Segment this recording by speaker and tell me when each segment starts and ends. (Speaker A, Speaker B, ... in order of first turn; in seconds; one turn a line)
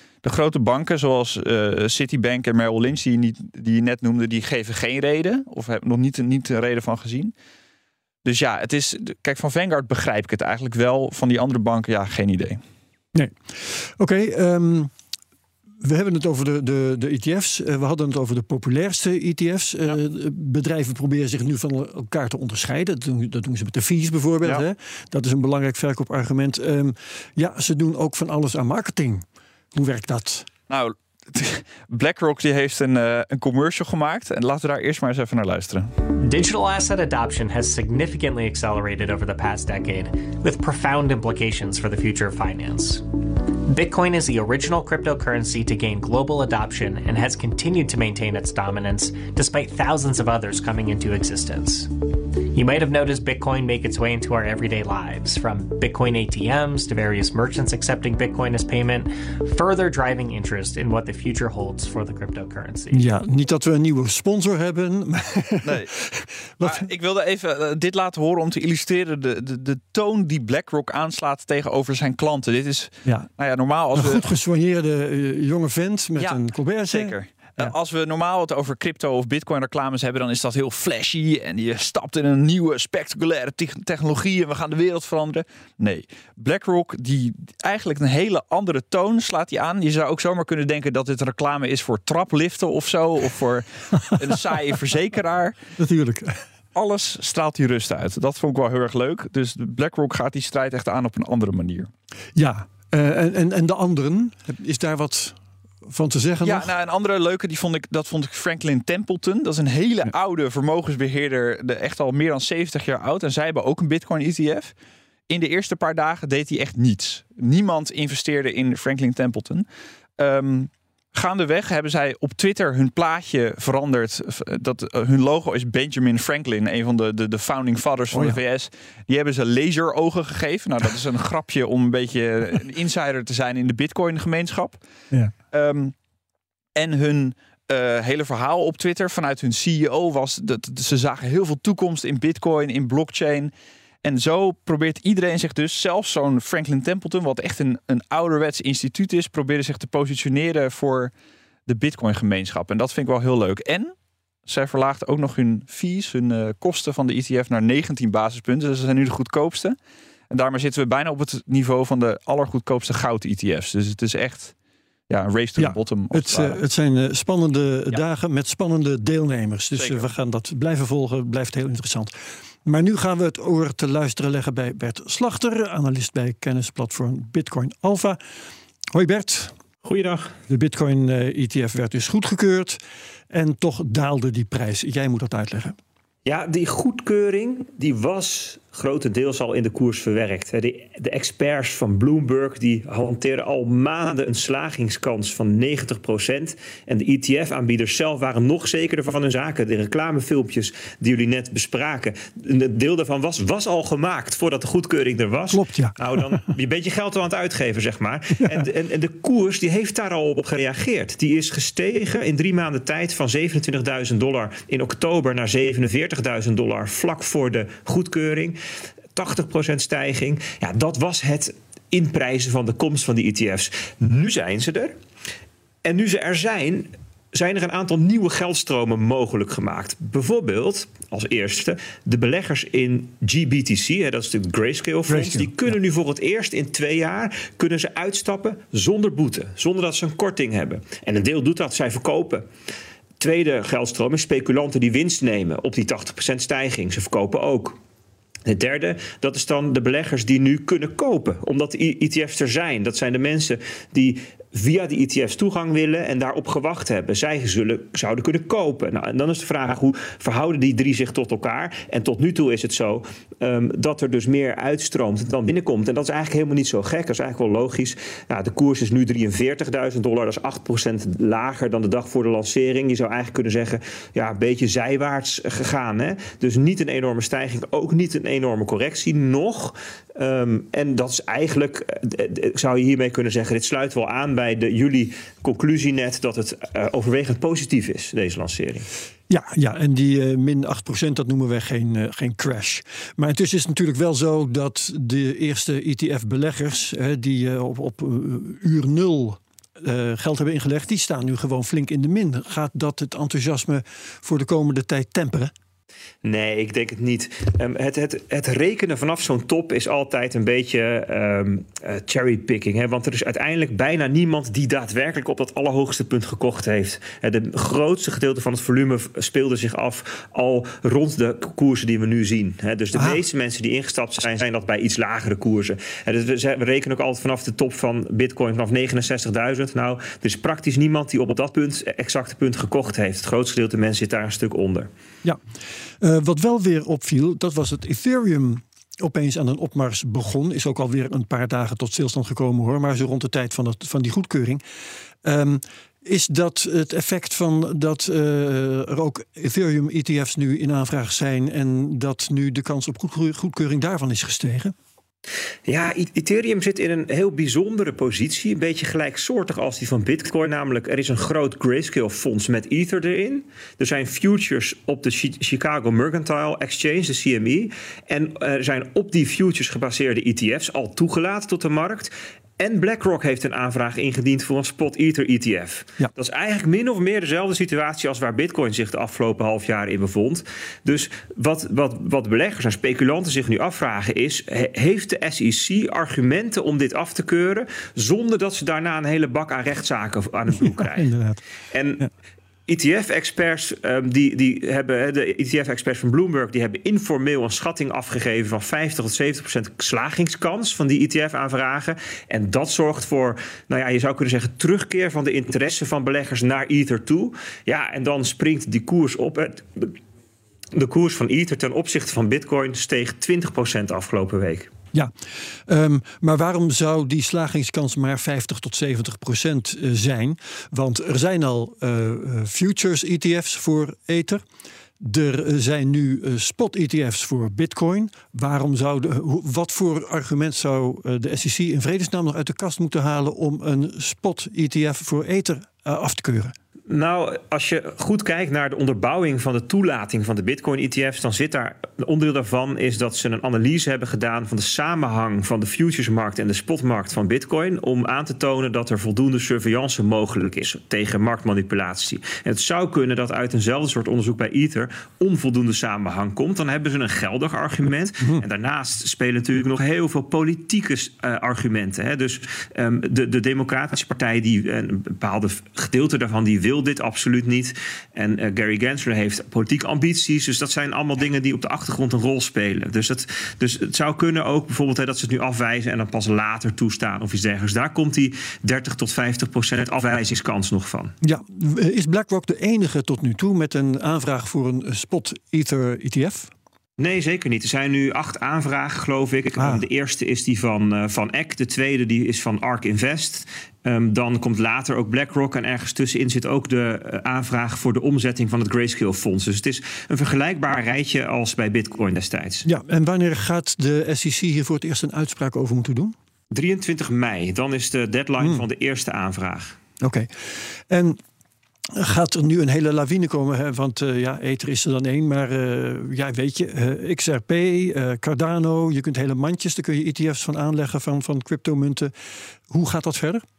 Speaker A: 0.2-7.3
Speaker A: 8.2-12.6
Speaker B: 13.1-14.9
Speaker B: 15.8-30.5
Speaker A: 30.7-35.9
Speaker C: 36.2-43.0
Speaker C: 43.7-51.9
Speaker C: 52.5-63.0
Speaker B: 62.9-66.8
Speaker A: 65.6-65.9
Speaker A: 66.6-74.2
Speaker B: 73.9-77.7
Speaker A: 76.2-95.6
Speaker B: 95.8-96.4
Speaker A: 96.7-101.9
Speaker B: 102.3-106.7
Speaker A: 106.4-114.7
Speaker A: 115.3-119.7
Speaker A: 120.2-134.8
Speaker B: 128.1-128.4
Speaker A: 135.5-135.9
Speaker A: 136.8-143.5
Speaker A: 144.0-151.1
Speaker A: 151.7-153.9
Speaker A: 154.4-159.8
Speaker A: 160.3-164.5
Speaker A: 165.1-166.6
Speaker B: 165.6-172.1
Speaker A: 169.8-170.1
Speaker B: 172.6-178.2
Speaker B: 178.9-179.5
Speaker D: 179.8-180.3
Speaker B: 180.5-185.8
Speaker D: 186.2-218.6
Speaker B: 205.5-206.4
Speaker B: 208.4-208.7
Speaker D: 219.1-224.9
Speaker D: 225.8-242.4
Speaker B: 235.1-235.7
Speaker D: 243.2-247.8
Speaker D: 248.4-288.9
Speaker B: 289.3-305.5
Speaker D: 306.2-334.9
Speaker B: 336.0-344.6
Speaker B: 345.2-354.7
Speaker D: 355.7-391.1
Speaker B: 390.6-391.4
Speaker D: 391.7-392.1
Speaker D: 392.7-410.0
Speaker D: 410.7-414.7
Speaker B: 415.7-424.4
Speaker B: 425.0-436.5
Speaker D: 436.9-481.1
Speaker B: 481.2-486.5
Speaker D: 487.0-502.6
Speaker B: 489.6-489.8
Speaker B: 502.6-506.1
Speaker D: 506.5-509.8
Speaker B: 510.0-511.2
Speaker B: 511.9-522.1
Speaker B: 522.7-523.4